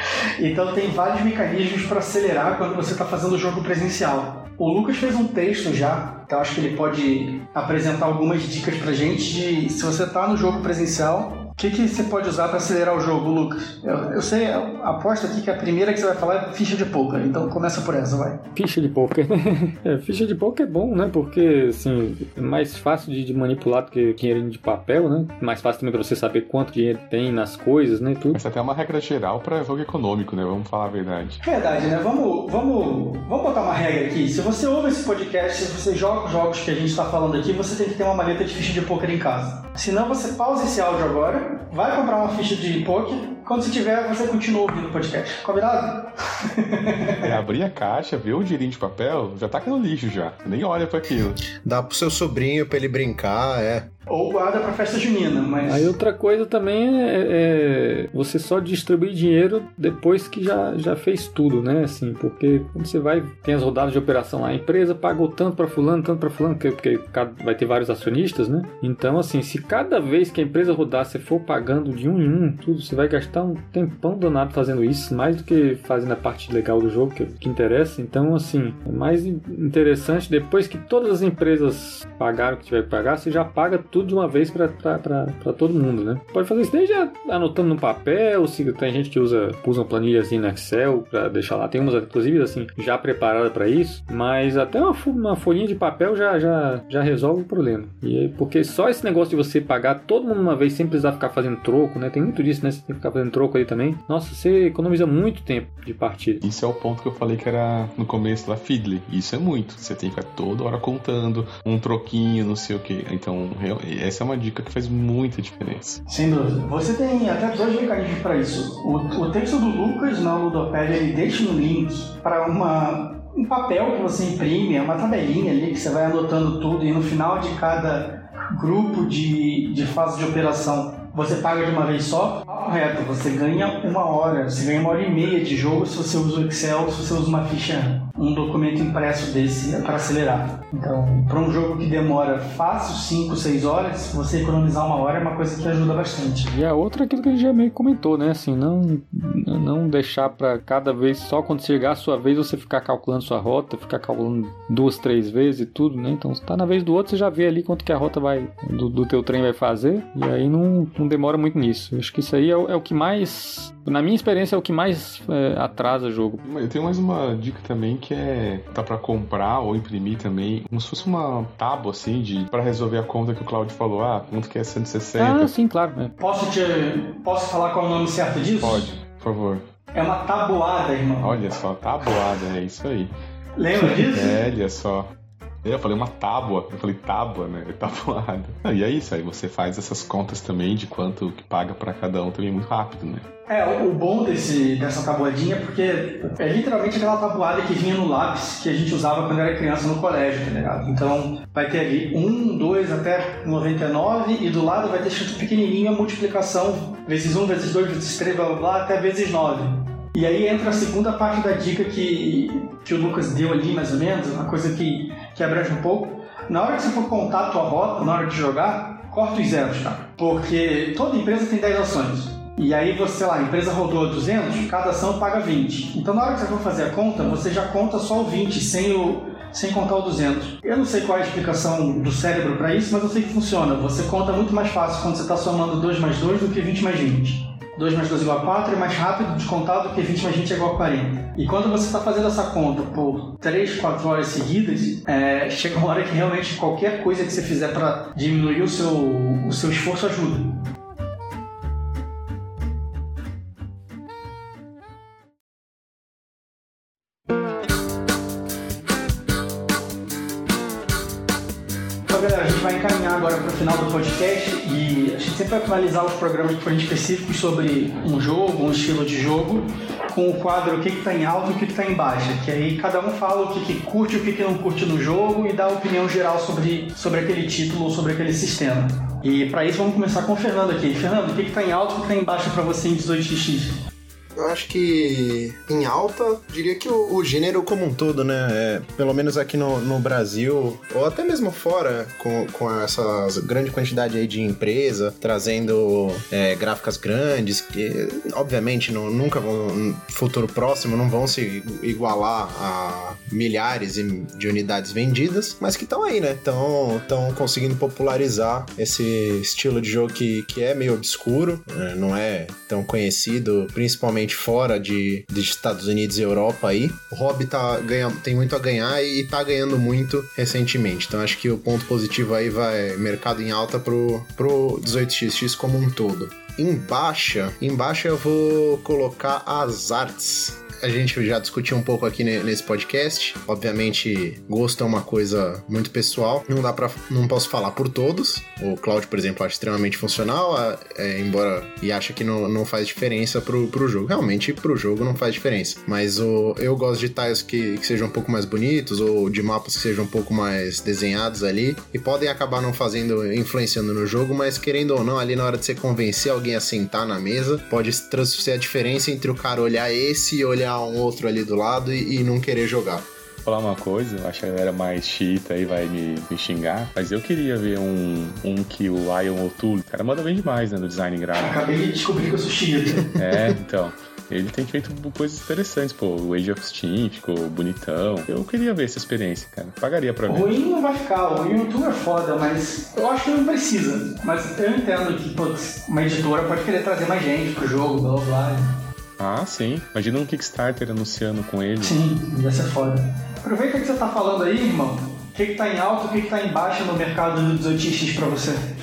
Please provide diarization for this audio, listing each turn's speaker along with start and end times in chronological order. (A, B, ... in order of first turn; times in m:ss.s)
0:00.4-0:18.4 A
0:18.6-0:28.4 B
0:28.3-0:31.4 C
0:31.4-0:47.4 A
0:47.2-0:51.4 C
0:51.6-0:53.9 D
0:54.1-0:55.9 A
0:55.7-1:46.4 B
1:46.4-1:56.0 C
1:56.1-2:26.5 A
2:26.5-2:46.4 B
2:46.4-2:55.5 C
2:55.2-2:56.2 B
2:56.2-2:58.9 A
2:58.5-2:59.6 C
2:59.9-3:01.4 A
3:01.2-3:03.1 C
3:03.6-3:04.4 A
3:03.7-3:05.1 C
3:05.6-3:13.3 C
3:13.5-4:10.6 A
4:22.1-4:43.8 A
4:44.4-6:03.0 D
6:03.4-6:11.6 C
6:11.4-6:13.2 A
6:13.2-6:20.5 C
6:20.3-6:28.8 A
6:29.2-6:32.0 C
6:31.8-6:38.6 A